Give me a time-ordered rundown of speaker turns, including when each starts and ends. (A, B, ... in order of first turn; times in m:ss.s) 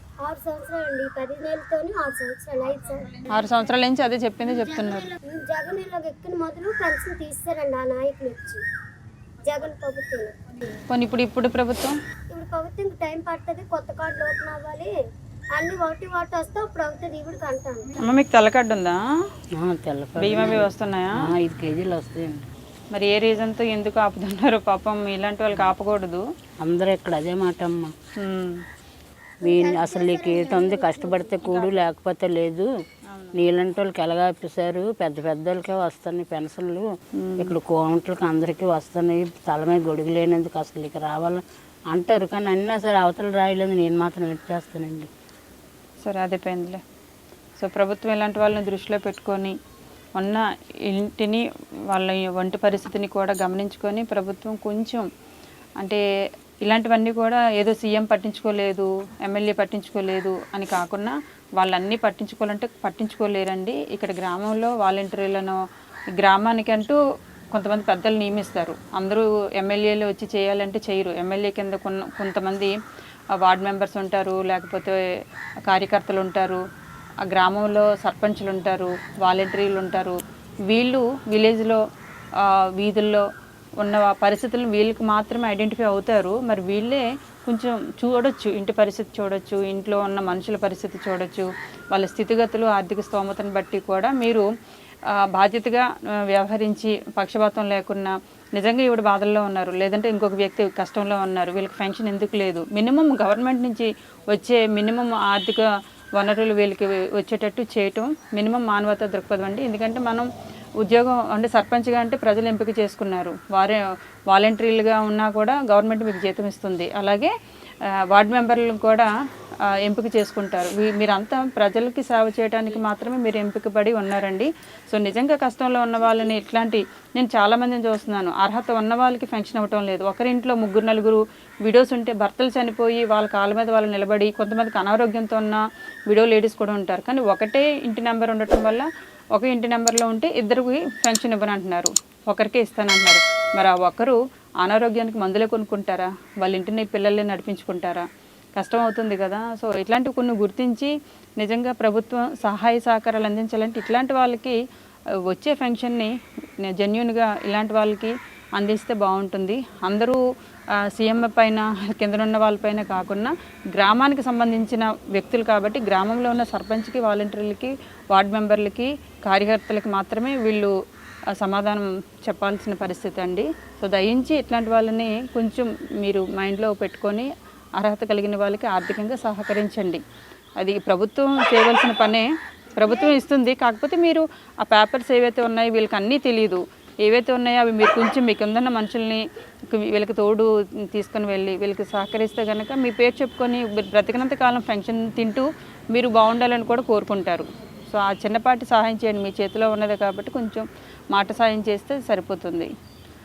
0:00.2-0:03.3 A
0:03.3-0:05.1 B
0:04.6-0:08.6 A
0:09.4-0:10.4 A
0:10.9-0:12.0 B
0:12.3-0:14.9 A
0:15.5-0:18.2 A
0:18.0-0:19.0 B
0:19.5-0:22.5 C
0:20.2-0:21.2 B
0:22.9-0:26.2 B
0:26.6-0:27.9 C
0:28.2-0:28.6 B
0:29.4-0:31.4 A
0:29.4-0:32.7 C
0:33.3-0:45.1 C
0:37.2-0:37.5 B
0:46.0-0:46.8 B
0:47.6-0:49.6 B
0:50.2-0:55.1 B
0:56.6-1:05.6 B
1:06.2-1:07.0 B
1:07.5-1:12.8 B
1:13.4-1:15.0 B
1:15.7-1:16.6 B
1:17.2-1:20.2 B
1:20.7-1:21.8 B
1:22.4-1:23.3 B
1:23.8-1:34.5 B
1:35.1-1:50.3 B
1:50.8-1:57.3 B
1:58.1-1:59.1 B
1:59.7-2:34.6 B
2:35.3-2:40.2 B
2:40.8-2:50.7 B
2:51.4-3:00.0 B
3:00.6-3:22.7 B